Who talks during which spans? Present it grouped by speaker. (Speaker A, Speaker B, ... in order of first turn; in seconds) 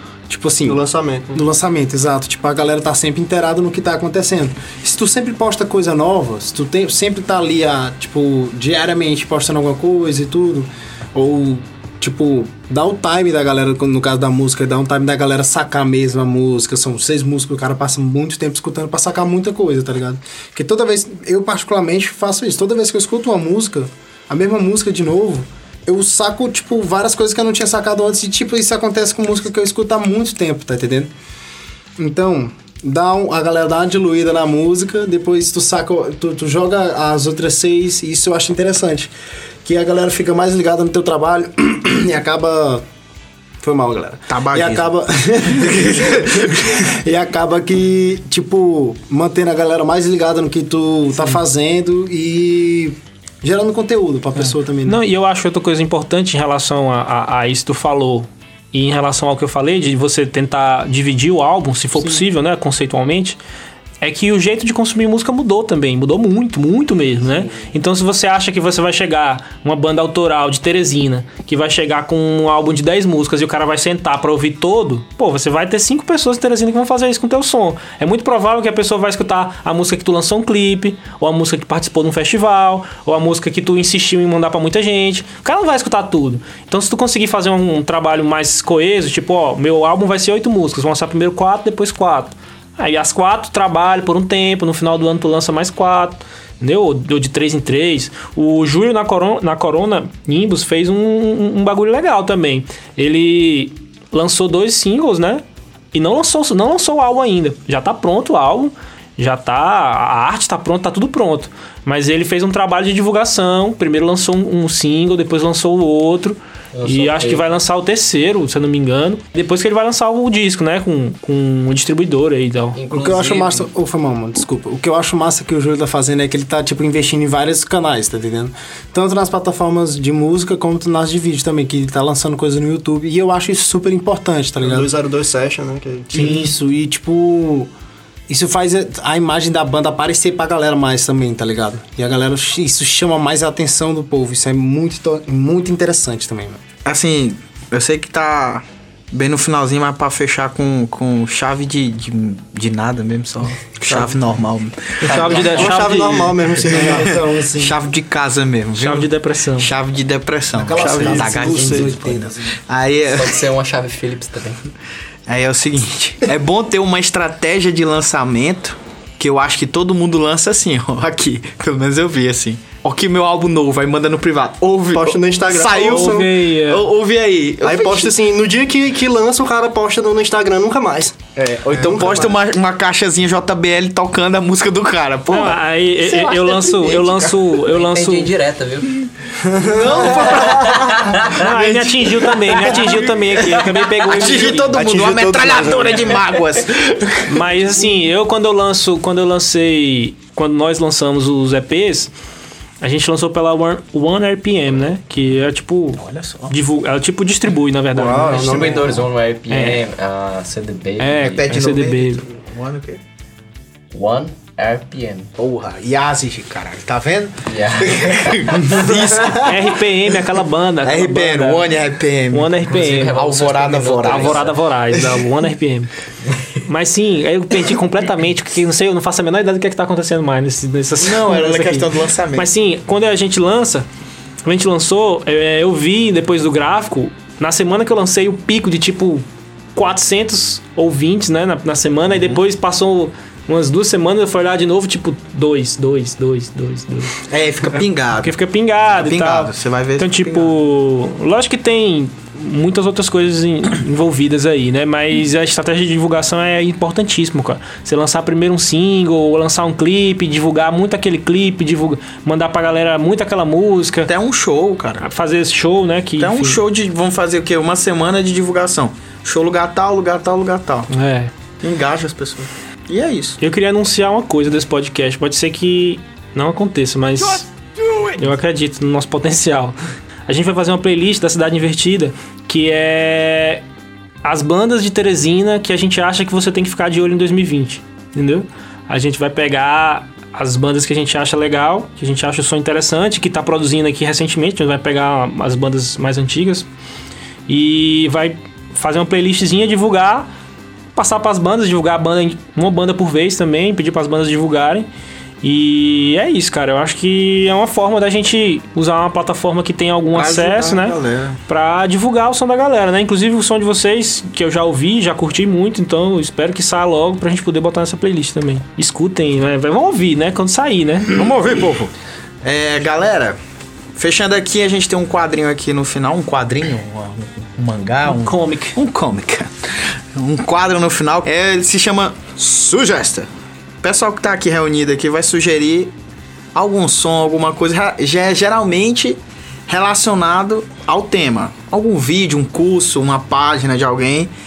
Speaker A: 0.3-0.8, 1.3-31.1, 32.0-39.1, 39.6-42.8, 43.6-55.0, 122.9-134.9, 136.1-137.7, 138.3-146.6, 156.7-157.8, 160.5-162.6
Speaker B: 0.7-1.4, 134.6-136.5, 155.1-157.2, 174.9-176.3, 177.6-181.2, 181.7-182.3, 189.4-190.4, 194.3-196.2, 207.9-209.1
Speaker C: 44.3-44.9, 45.5-46.7, 146.8-155.8, 157.6-163.5, 165.3-178.2, 181.3-187.6, 189.6-197.6, 205.9-206.6, 211.2-213.0, 215.4-220.2, 220.8-225.2, 231.0-232.5, 247.3-248.3, 248.9-250.6, 264.1-265.1, 266.2-270.9, 271.6-273.4, 310.1-311.4, 321.1-321.9, 322.4-323.4, 323.9-333.3, 333.8-335.9, 336.5-344.3
Speaker D: 54.4-63.4, 64.0-122.8, 155.0-156.5, 158.8-159.7, 160.8-161.9, 175.7-176.9, 185.3-188.3, 191.2-194.7, 197.2-202.1, 202.8-208.7, 209.5-209.8, 211.0-212.2, 219.3-221.8, 222.3-223.1, 224.0-225.9, 226.6-233.8, 234.4-239.2, 239.7-247.1, 248.2-264.1, 265.0-266.6, 270.9-271.3, 273.4-277.5, 278.2-279.8, 280.3-283.6, 284.2-296.7, 297.5-300.3, 300.9-304.9, 305.4-321.2, 328.0-328.8
Speaker E: 116.7-117.4, 122.7-123.7, 163.1-164.6, 187.7-188.9, 190.3-191.2, 208.3-211.4, 213.9-215.3, 217.5-218.7, 222.7-224.5